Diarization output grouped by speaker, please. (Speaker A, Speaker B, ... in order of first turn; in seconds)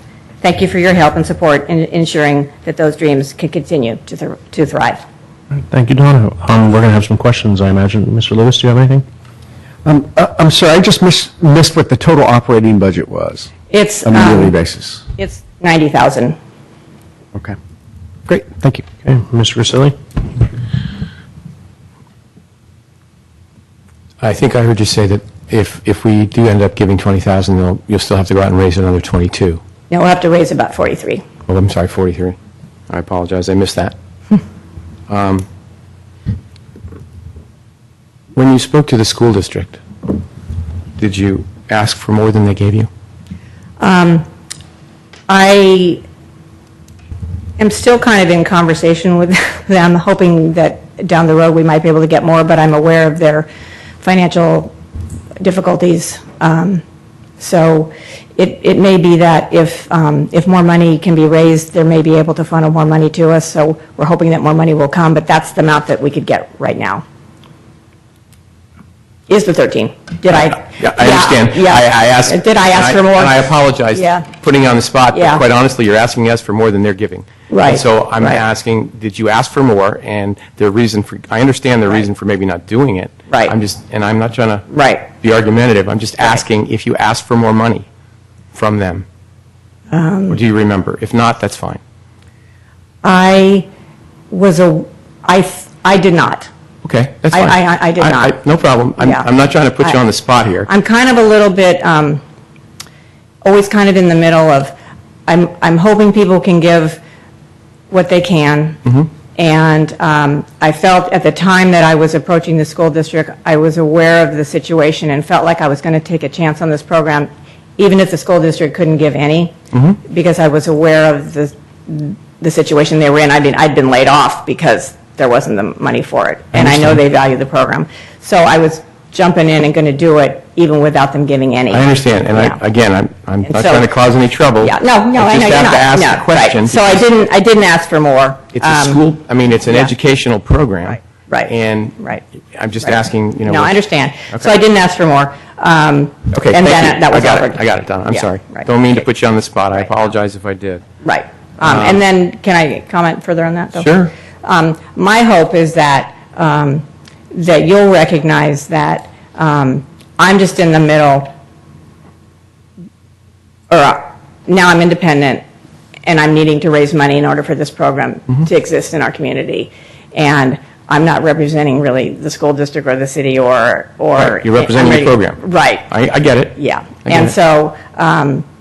Speaker A: 0.4-5.0, 13.7-14.5, 15.2-16.4, 29.9-31.2, 43.8-44.3, 45.3-46.0, 47.6-53.5, 54.0-54.7, 55.4-56.8, 57.4-67.0, 69.3-74.3, 75.1-75.4, 77.5-78.4, 83.3-83.5, 84.7-85.1, 89.9-90.4, 93.0-93.7, 94.3-96.5, 97.3-98.4, 99.0-99.3, 100.7-102.2, 103.4-104.8, 105.3-107.0, 107.9-108.8, 109.3-132.6, 133.5-133.9, 134.6-139.0, 140.8-142.2, 142.8-148.7, 151.0-161.3, 163.7-165.4, 166.0-175.9, 176.5-178.4
Speaker B: 5.6-9.1, 19.0-20.0
Speaker C: 9.8-13.5, 14.0-15.0, 18.3-18.9
Speaker D: 24.2-29.6, 31.5-32.4, 32.9-33.9, 35.1-35.5, 38.3-39.8, 41.0-42.9, 70.4-84.7, 85.2-87.8, 88.5-89.0, 90.3-91.8, 96.8-100.7, 126.5-127.0, 131.7-137.0, 138.6-142.0, 142.5-143.7, 146.3-150.8, 151.6-152.0, 153.7-154.1, 174.2-177.3